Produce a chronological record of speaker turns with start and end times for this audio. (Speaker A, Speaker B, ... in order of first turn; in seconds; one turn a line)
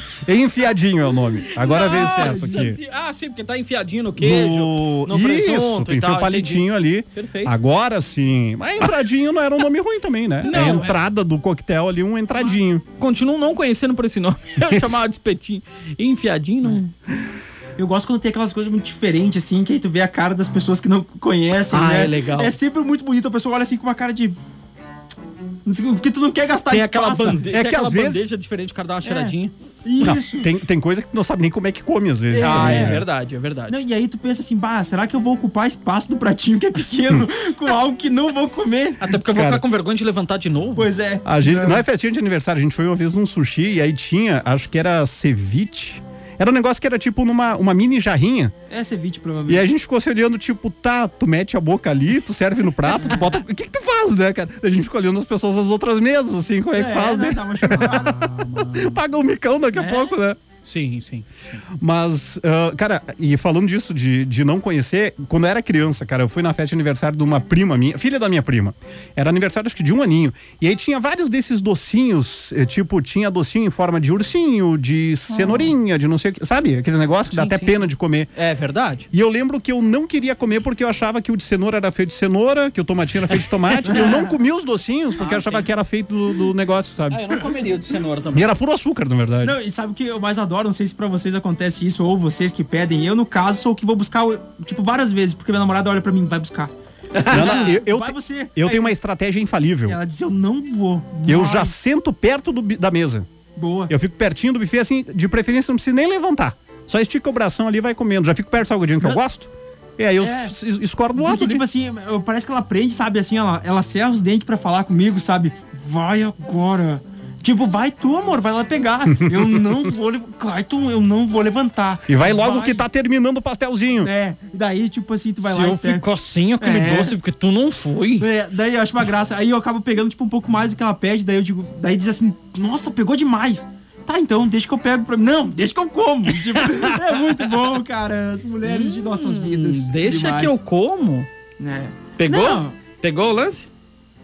Speaker A: 0.2-2.8
Speaker B: 1.5-6.6
Speaker C: 1.8-2.7
Speaker A: 4.2-12.8
Speaker B: 7.2-7.5
Speaker B: 10.4-11.0
Speaker B: 13.0-16.9
Speaker A: 14.6-15.0
Speaker C: 17.8-24.4
Speaker B: 21.7-22.6
Speaker C: 25.6-27.4
Speaker B: 26.7-29.5
Speaker A: 27.4-28.3
Speaker C: 29.0-30.5
Speaker A: 30.0-33.0
Speaker C: 32.3-33.1
Speaker B: 32.4-33.8
Speaker C: 33.7-39.1
Speaker B: 39.0-40.9
Speaker A: 39.3-39.6
Speaker C: 40.8-41.8
Speaker A: 41.2-48.5
Speaker C: 48.7-49.7
Speaker A: 49.5-60.4
Speaker C: 53.0-53.2
Speaker C: 56.7-58.5
Speaker B: 58.4-59.0
Speaker B: 60.6-61.6
Speaker A: 61.8-78.3
Speaker B: 75.3-75.7
Speaker B: 77.3-79.1
Speaker A: 79.1-87.4
Speaker B: 83.7-84.3
Speaker C: 83.9-84.2
Speaker B: 85.2-85.7
Speaker B: 87.1-88.5
Speaker A: 88.3-89.6
Speaker C: 89.4-96.7
Speaker B: 97.1-97.8
Speaker C: 97.3-98.9
Speaker A: 97.3-100.0
Speaker C: 99.9-101.7
Speaker A: 101.3-103.3
Speaker C: 103.6-103.9
Speaker A: 103.9-111.6
Speaker C: 110.2-110.5
Speaker C: 111.2-122.8
Speaker A: 122.1-124.1
Speaker C: 124.0-126.0
Speaker B: 125.4-128.3
Speaker C: 126.6-127.1
Speaker C: 128.2-140.6
Speaker B: 136.6-137.4
Speaker B: 138.6-141.3
Speaker C: 141.6-142.8
Speaker B: 142.2-143.7